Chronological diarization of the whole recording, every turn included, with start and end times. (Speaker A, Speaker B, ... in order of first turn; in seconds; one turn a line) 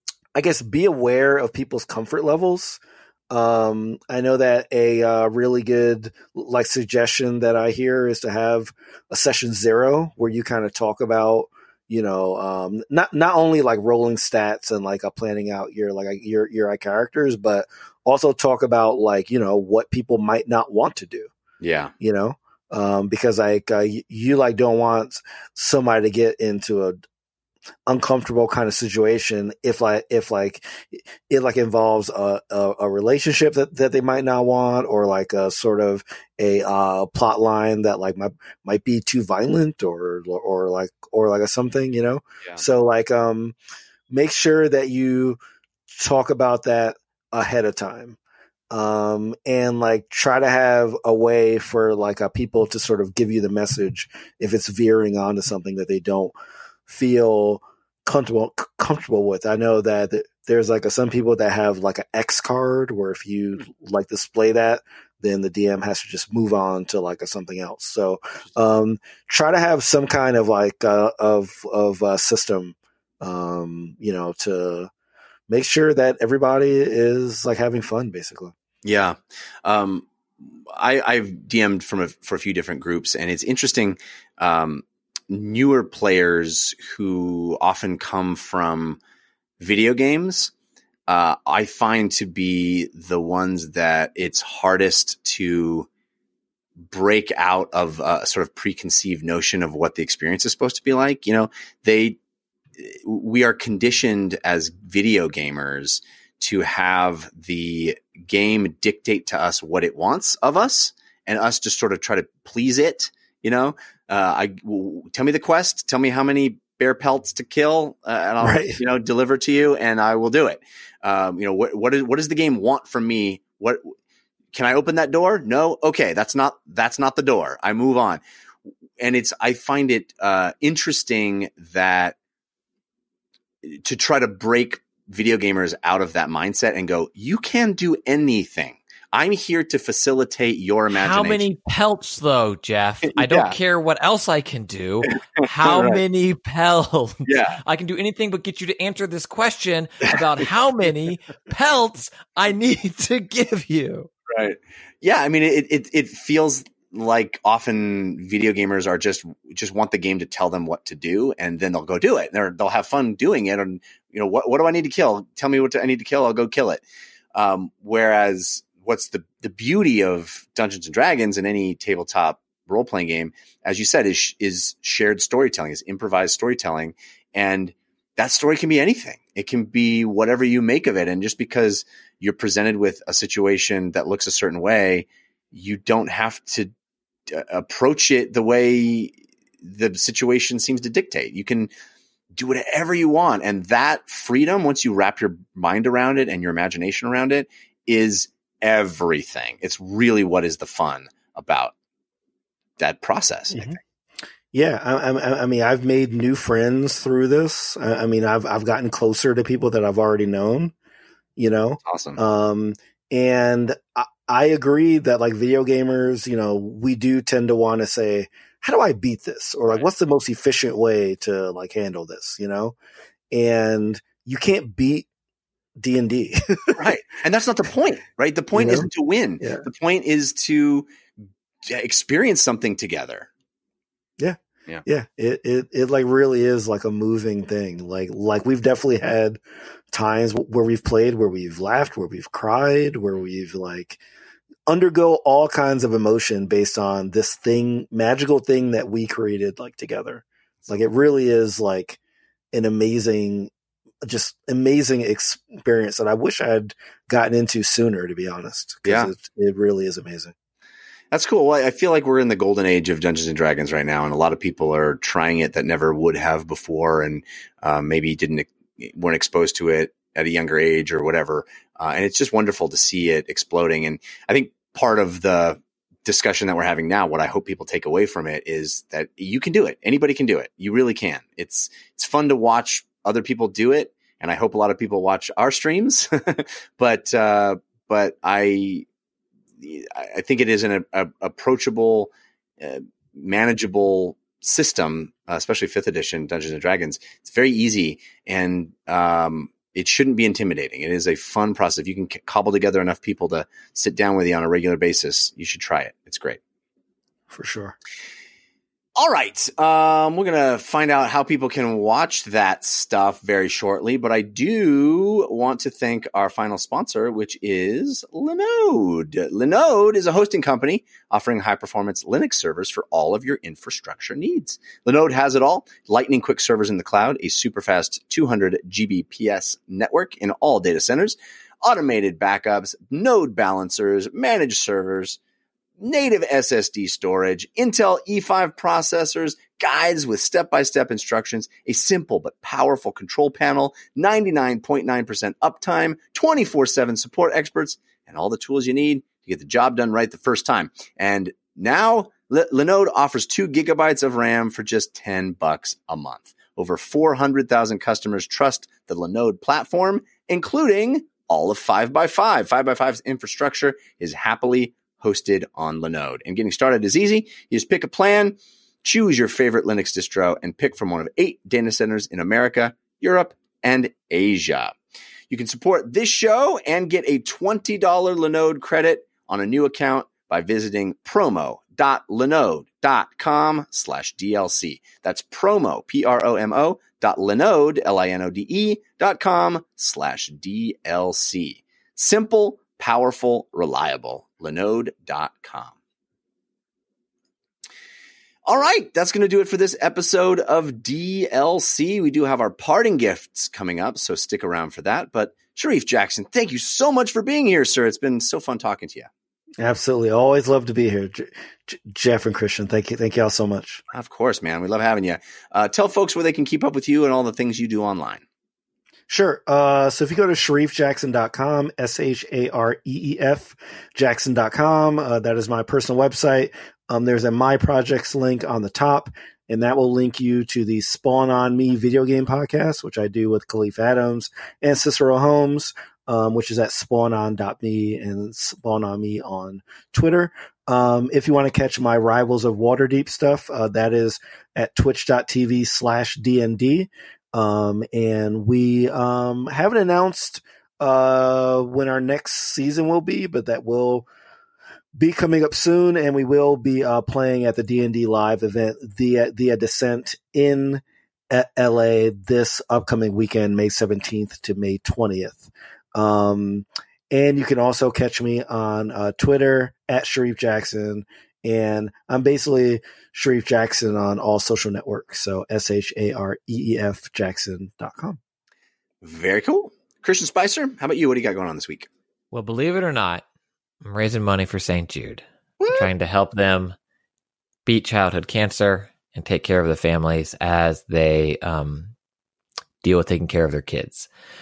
Speaker A: 0.3-21.3
Speaker B: 21.6-21.9
Speaker A: 22.0-27.0
Speaker A: 27.9-43.5
Speaker A: 44.1-45.4
Speaker A: 45.9-48.2
Speaker A: 48.7-56.3
Speaker A: 56.9-74.9
Speaker A: 75.5-78.5
Speaker B: 78.8-89.0
Speaker B: 89.6-90.5
Speaker B: 91.1-95.9
Speaker B: 96.9-102.2
Speaker B: 102.8-123.8
Speaker A: 118.4-118.8
Speaker B: 124.5-128.2
Speaker B: 129.0-132.2
Speaker B: 133.6-141.4
Speaker C: 140.9-154.1
Speaker B: 143.1-143.6
Speaker B: 145.1-146.0
Speaker B: 147.3-147.6
Speaker B: 154.3-166.8
Speaker B: 167.3-186.7
Speaker B: 187.3-191.7
Speaker B: 192.3-201.7
Speaker B: 202.8-203.8
Speaker A: 204.5-210.7
Speaker A: 211.4-222.8
Speaker B: 211.8-212.2
Speaker A: 223.3-225.1
Speaker A: 225.8-226.8
Speaker B: 226.7-230.8
Speaker A: 228.5-228.9
Speaker A: 229.4-229.7
Speaker B: 231.6-233.3
Speaker A: 234.2-239.4
Speaker A: 239.9-244.0
Speaker A: 244.7-252.0
Speaker A: 252.5-253.5
Speaker A: 254.0-260.3
Speaker B: 258.9-259.1
Speaker B: 261.1-288.8
Speaker B: 289.6-306.4
Speaker A: 307.3-307.8
Speaker B: 308.9-335.2
Speaker B: 335.8-374.7
Speaker B: 375.3-395.7
Speaker B: 398.4-409.1
Speaker A: 409.6-413.8
Speaker B: 413.9-418.2
Speaker A: 419.1-454.1
Speaker A: 455.0-478.2
Speaker B: 479.0-481.9
Speaker C: 482.3-483.2
Speaker C: 483.8-486.8
Speaker B: 485.6-485.9
Speaker C: 487.6-491.9
Speaker C: 492.8-494.1